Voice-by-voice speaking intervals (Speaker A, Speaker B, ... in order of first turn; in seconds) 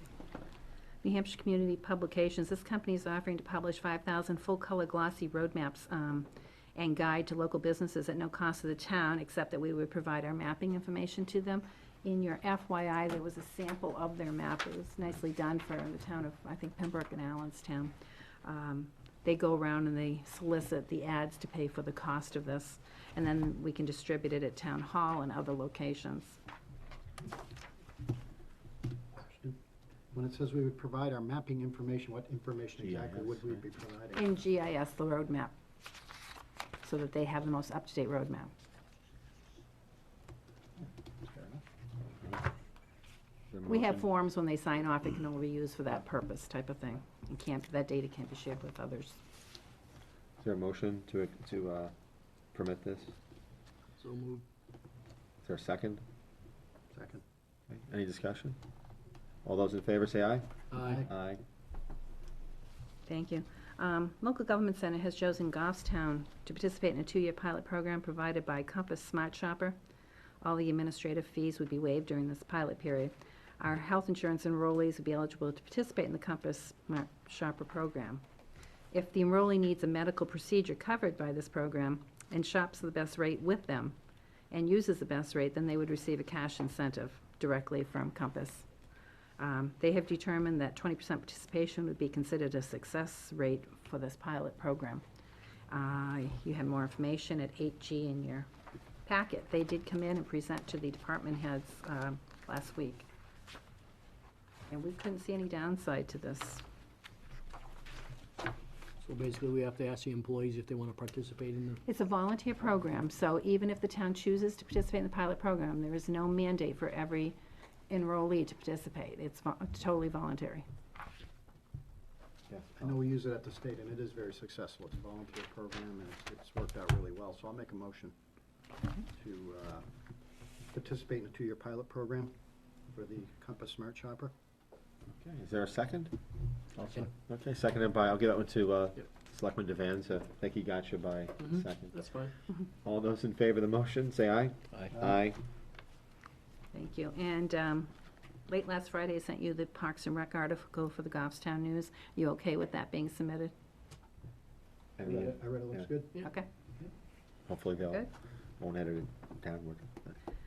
Speaker A: 1.0-26.4, 34.1-35.5, 36.8-38.5, 43.6-49.2, 63.0-69.8, 70.4-78.2, 78.9-84.0, 84.5-88.7, 89.4-95.0, 95.7-98.5, 99.0-103.0, 104.7-106.6, 111.8-117.3, 117.9-120.6, 146.7-147.9, 148.5-153.5, 156.2-156.5
Speaker B: 29.2-29.6, 30.1-34.4, 40.8-41.6, 56.9-57.2, 60.8-61.1, 122.8-128.1, 129.1-129.8, 130.7-132.3, 132.9-134.3, 155.0-156.2
Speaker C: 32.8-33.6, 42.0-42.4, 43.5-44.1, 50.4-51.9, 52.5-53.1, 55.4-56.0, 57.7-58.6, 59.4-61.4, 122.5-123.0, 135.2-136.1, 136.9-142.0, 142.6-145.4, 155.0-155.9, 157.5-160.1
Speaker D: 54.0-54.4, 60.7-61.0, 109.0-111.8, 136.8-137.1, 141.4-142.3